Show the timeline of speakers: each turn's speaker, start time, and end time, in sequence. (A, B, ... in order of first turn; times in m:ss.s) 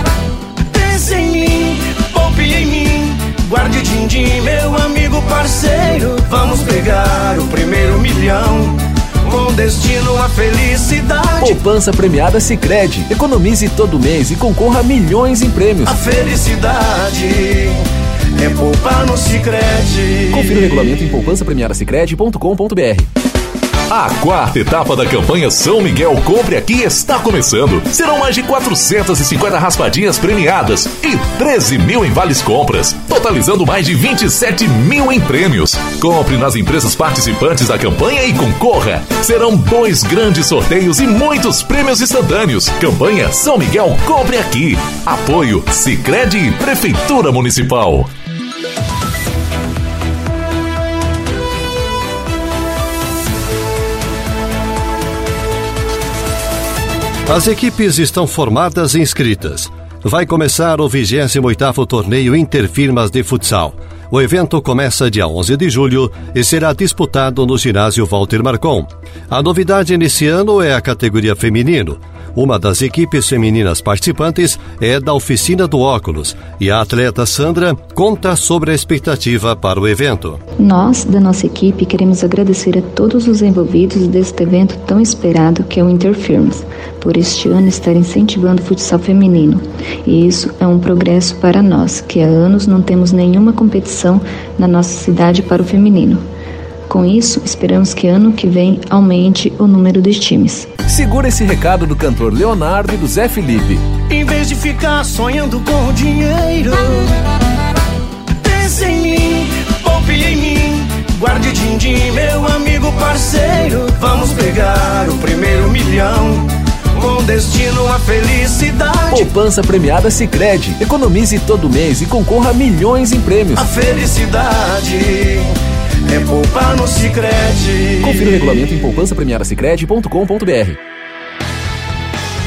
0:00.7-0:11.6 A
0:11.4-0:15.9 B
0:15.8-0:17.8 A
0:18.4-0:20.7 A
0:20.3-0:23.1 B
0:23.9-0:48.1 C
0:57.3-1:20.4 D
1:20.6-1:36.2 E
1:36.9-1:40.7 E
1:40.9-1:43.9 B
1:44.1-1:47.1 A
1:48.4-1:59.3 A
1:59.2-2:03.6 B
2:03.6-2:05.5 A
2:06.1-2:08.4 A
2:08.0-2:10.8 B